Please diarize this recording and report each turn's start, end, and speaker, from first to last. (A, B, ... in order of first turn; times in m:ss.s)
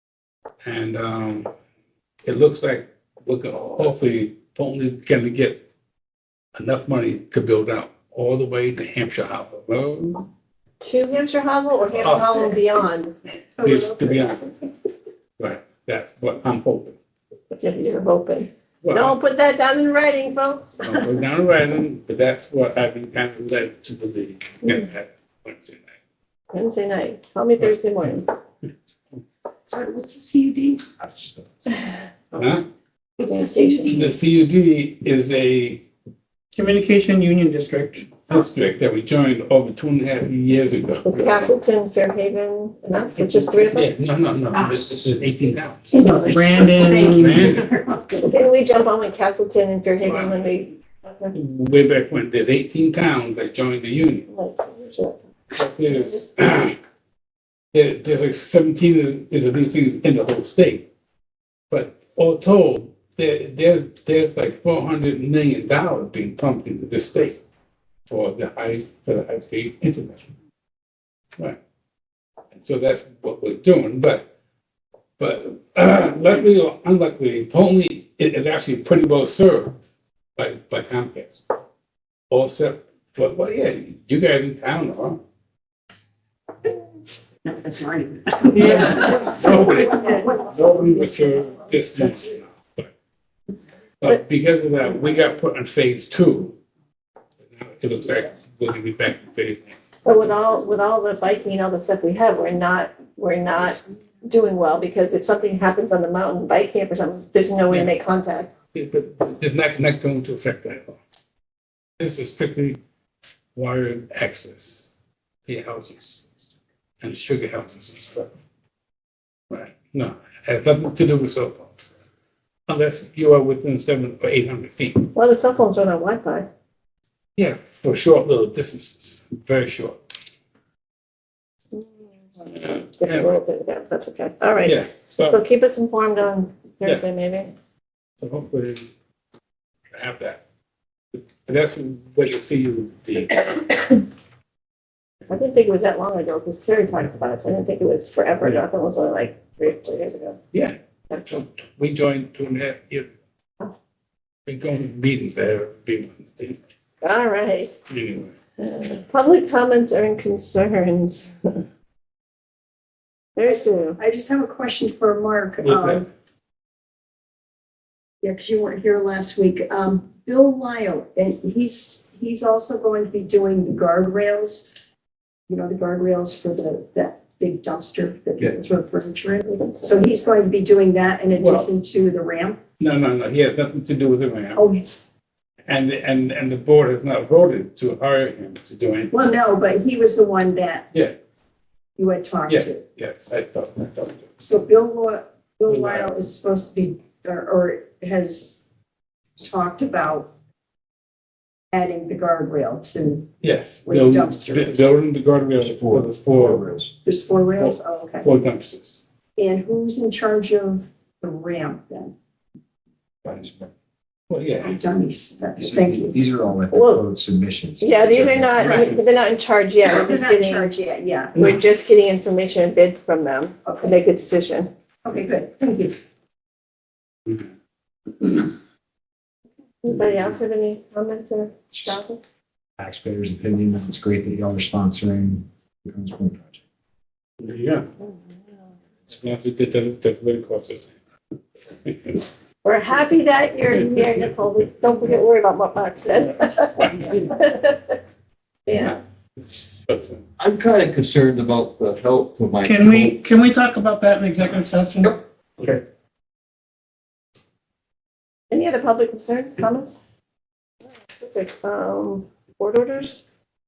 0:00.6-0:01.5 A
0:02.2-0:05.6 A
0:06.6-0:10.2 A
0:10.8-0:13.1 B
0:12.0-0:12.6 A
0:13.6-0:14.1 C
0:13.6-0:14.4 A
0:15.4-0:17.0 A
0:17.5-0:21.1 B
0:18.8-0:19.2 A
0:20.8-0:26.0 A
0:26.5-0:28.3 B
0:29.7-0:31.0 C
0:32.4-0:32.7 A
0:33.2-0:34.1 C
0:33.2-0:34.1 B
0:33.9-0:35.8 A
0:36.6-0:38.2 D
0:38.3-0:41.6 A
0:41.1-0:43.9 B
0:43.7-0:46.2 A
0:46.0-0:48.1 C
0:46.2-0:47.6 D
0:47.1-0:47.7 A
0:48.2-0:51.3 B
0:50.0-0:50.3 A
0:51.3-0:54.3 A
0:54.3-0:55.2 B
0:55.6-0:56.8 A
0:55.9-0:56.4 B
0:57.7-1:00.9 A
1:01.7-1:07.4 A
1:08.1-1:10.3 A
1:12.6-1:14.3 A
1:15.2-1:19.8 A
1:20.4-1:21.4 A
1:22.3-1:25.2 A
1:27.5-1:30.4 C
1:28.6-1:32.9 A
1:28.7-1:30.1 B
1:34.0-1:36.6 A
1:37.4-1:39.8 A
1:40.0-1:48.5 B
1:48.7-1:51.0 A
1:52.0-1:52.8 A
1:53.6-1:54.9 A
1:55.5-1:56.3 A
1:57.0-1:58.3 A
1:59.5-2:01.9 A
2:02.7-2:05.1 A
2:05.2-2:06.5 B
2:07.4-2:10.0 A
2:12.4-2:17.5 B
2:12.5-2:13.3 A
2:14.6-2:15.4 A
2:18.2-2:18.9 A
2:19.9-2:20.4 A
2:21.1-2:23.5 A
2:23.5-2:24.0 B
2:25.3-2:30.4 B
2:30.5-2:33.1 A
2:34.5-2:36.6 A
2:37.0-2:37.7 B
2:37.9-2:38.3 A
2:38.6-2:41.6 B
2:43.4-2:44.0 B
2:43.5-2:46.1 C
2:45.6-2:46.1 A
2:48.2-2:54.7 C
2:55.5-3:02.6 C
2:59.5-3:00.2 B
3:01.3-3:01.7 A
3:02.8-3:04.7 A
3:04.6-3:04.9 C
3:05.7-3:09.2 A
3:09.1-3:10.9 C
3:12.0-3:12.8 C
3:12.5-3:14.3 A
3:14.4-3:18.6 C
3:15.7-3:16.1 A
3:19.4-3:20.3 C
3:21.7-3:23.3 C
3:23.4-3:26.7 A
3:23.9-3:24.9 C
3:25.6-3:26.9 E
3:27.0-3:28.3 C
3:27.6-3:29.0 A
3:29.4-3:32.1 C
3:33.2-3:33.7 A
3:34.3-3:34.8 A
3:34.6-3:36.2 C
3:35.6-3:38.8 E
3:36.7-3:37.0 B
3:37.8-3:40.7 B
3:38.6-3:39.0 C
3:38.6-3:39.0 A
3:39.8-3:41.5 C
3:41.4-3:44.7 B
3:43.6-3:44.0 C
3:45.0-3:46.0 C
3:49.8-3:52.2 B
3:52.8-3:56.6 E
3:57.4-3:57.9 A
3:59.1-4:01.0 A
4:01.8-4:02.2 A
4:02.6-4:08.0 B
4:03.9-4:04.3 A
4:06.8-4:07.3 A
4:08.7-4:09.0 B
4:09.9-4:10.2 A
4:10.4-4:13.2 F
4:12.6-4:15.2 D
4:18.5-4:20.0 B
4:21.2-4:23.2 B